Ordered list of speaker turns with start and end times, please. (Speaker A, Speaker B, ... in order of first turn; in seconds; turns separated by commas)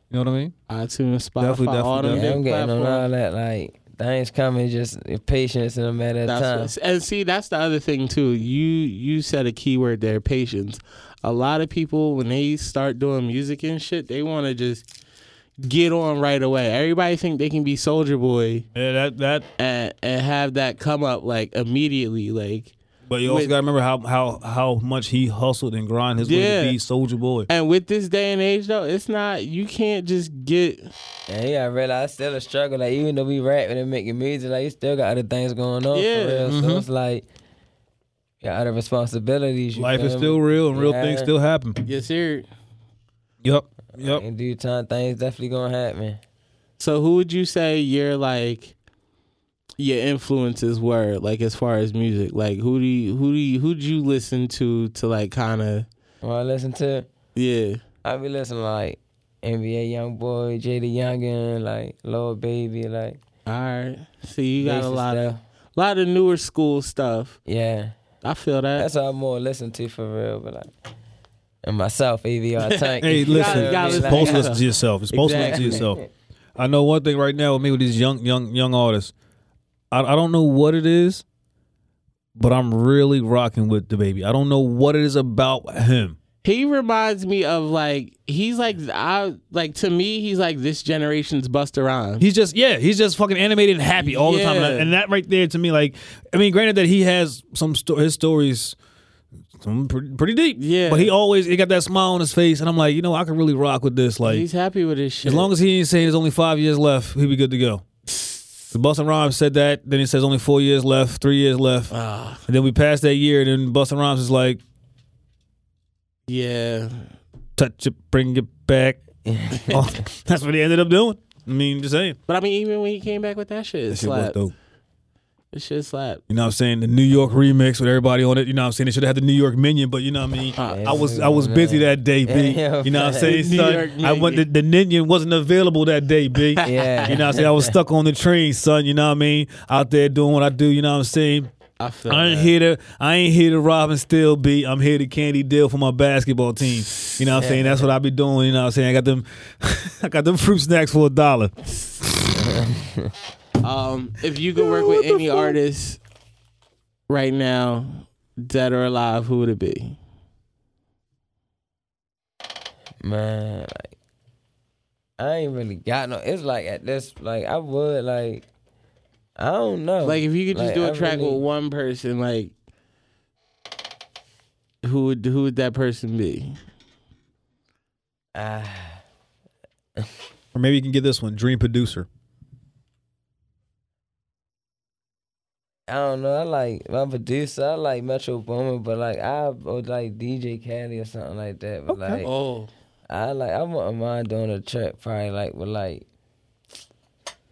Speaker A: 0.1-0.5, Speaker B: 0.7-3.0, Speaker A: 1.4-2.4, Speaker C: 2.1-6.7, Speaker B: 6.2-14.8, Speaker B: 15.6-18.6, Speaker A: 18.7-19.4, Speaker B: 19.6-22.7, Speaker A: 23.1-27.5, Speaker B: 23.2-23.6, Speaker B: 26.2-26.8, Speaker B: 27.5-30.9, Speaker C: 31.3-37.2, Speaker B: 35.9-36.5, Speaker A: 36.5-36.9, Speaker C: 38.4-41.3, Speaker A: 39.7-41.8, Speaker B: 41.8-42.5, Speaker A: 43.4-44.2, Speaker C: 44.0-46.2, Speaker B: 46.8-48.7, Speaker B: 49.8-55.9, Speaker C: 56.2-57.1, Speaker B: 57.3-57.8, Speaker C: 58.0-63.2, Speaker B: 63.5-67.4, Speaker C: 64.6-65.4, Speaker C: 67.5-68.0, Speaker B: 68.2-68.9, Speaker C: 68.8-70.7, Speaker C: 71.6-74.5, Speaker B: 72.7-75.8, Speaker A: 73.0-76.0, Speaker C: 75.3-76.0, Speaker A: 76.5-79.1, Speaker A: 79.9-81.2, Speaker A: 82.3-86.2, Speaker B: 86.4-92.3, Speaker A: 92.2-98.8, Speaker B: 94.0-94.9, Speaker A: 99.6-104.4, Speaker B: 100.6-101.1, Speaker B: 104.2-105.5, Speaker A: 105.2-107.8, Speaker A: 108.7-111.9, Speaker B: 111.9-112.4, Speaker A: 112.5-114.6, Speaker B: 116.3-117.1, Speaker A: 117.6-119.0, Speaker C: 119.2-120.0, Speaker A: 119.7-122.2, Speaker B: 122.3-124.4, Speaker A: 123.9-124.5, Speaker B: 125.5-126.2, Speaker A: 126.3-141.5, Speaker B: 130.6-131.0, Speaker C: 130.6-133.4, Speaker B: 133.1-134.4, Speaker B: 136.6-137.4, Speaker C: 136.6-137.8, Speaker B: 141.8-142.5, Speaker A: 142.1-151.5, Speaker C: 147.3-147.9, Speaker C: 152.3-153.1, Speaker B: 153.6-156.0, Speaker A: 154.6-155.4, Speaker B: 157.1-160.0, Speaker C: 163.0-163.9, Speaker C: 165.2-168.4, Speaker C: 169.4-171.4, Speaker B: 170.0-172.5, Speaker B: 174.8-176.6, Speaker C: 178.3-179.0, Speaker A: 180.5-182.1, Speaker C: 185.9-192.3, Speaker A: 191.9-192.2, Speaker B: 192.2-192.7, Speaker C: 193.1-196.0